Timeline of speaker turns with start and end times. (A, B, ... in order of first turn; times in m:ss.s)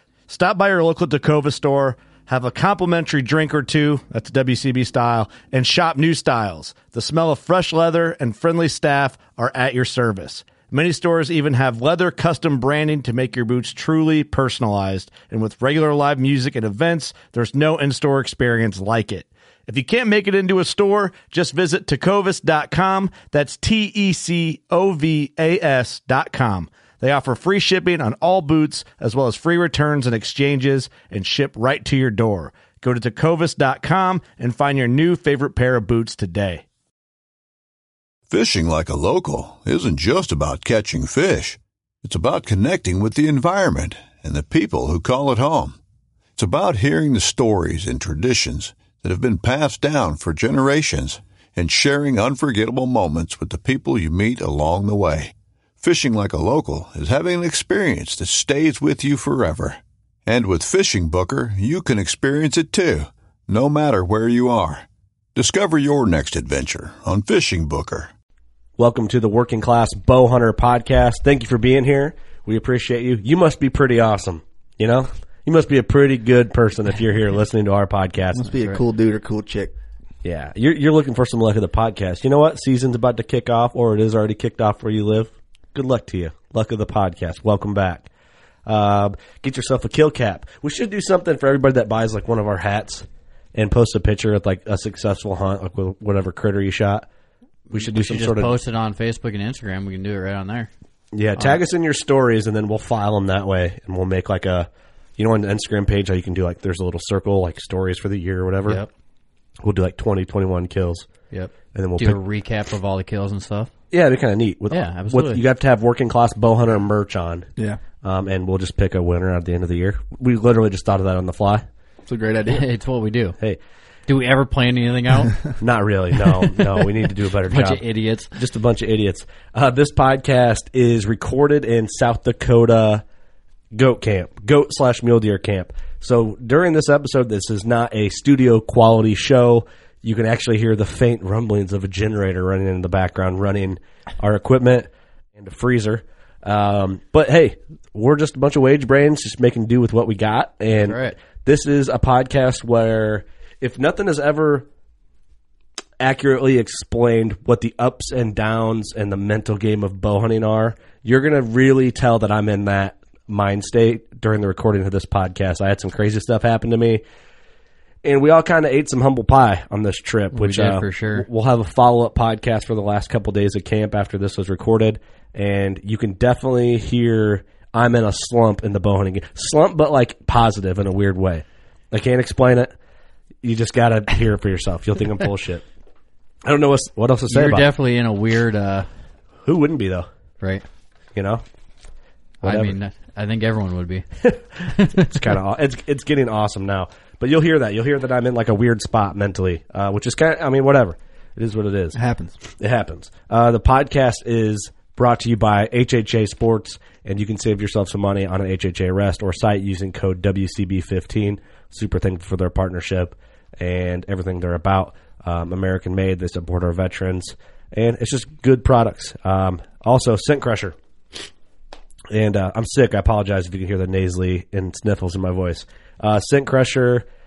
0:00.3-0:36.6 A
0:38.3-0:45.8 B
0:46.4-1:08.1 B
1:08.8-1:18.5 C
1:18.3-1:19.7 D
1:20.2-1:28.1 C
1:28.6-1:37.1 C
1:37.7-1:38.6 C
1:37.7-1:40.7 E
1:41.1-1:48.8 C
1:49.6-1:51.1 C
1:51.3-1:53.7 E
1:51.7-1:52.2 C
1:53.9-1:57.5 C
1:54.7-1:55.4 E
1:58.0-2:01.6 C
2:02.1-2:02.7 D
2:02.5-2:03.4 E
2:04.1-2:05.4 E
2:05.6-2:13.0 C
2:07.4-2:08.3 E
2:13.7-2:34.6 C
2:30.8-2:31.2 E
2:36.0-2:47.0 C
2:48.0-3:02.7 C
2:50.3-2:51.3 E
3:03.4-3:05.6 C
3:06.4-3:07.7 C
3:07.3-3:08.9 E
3:09.4-3:10.1 C
3:11.1-3:11.4 C
3:12.4-3:14.0 E
3:12.4-3:12.7 C
3:14.7-3:15.1 E
3:15.0-3:22.0 C
3:21.9-3:22.4 D
3:22.6-3:40.8 C
3:42.1-3:47.0 C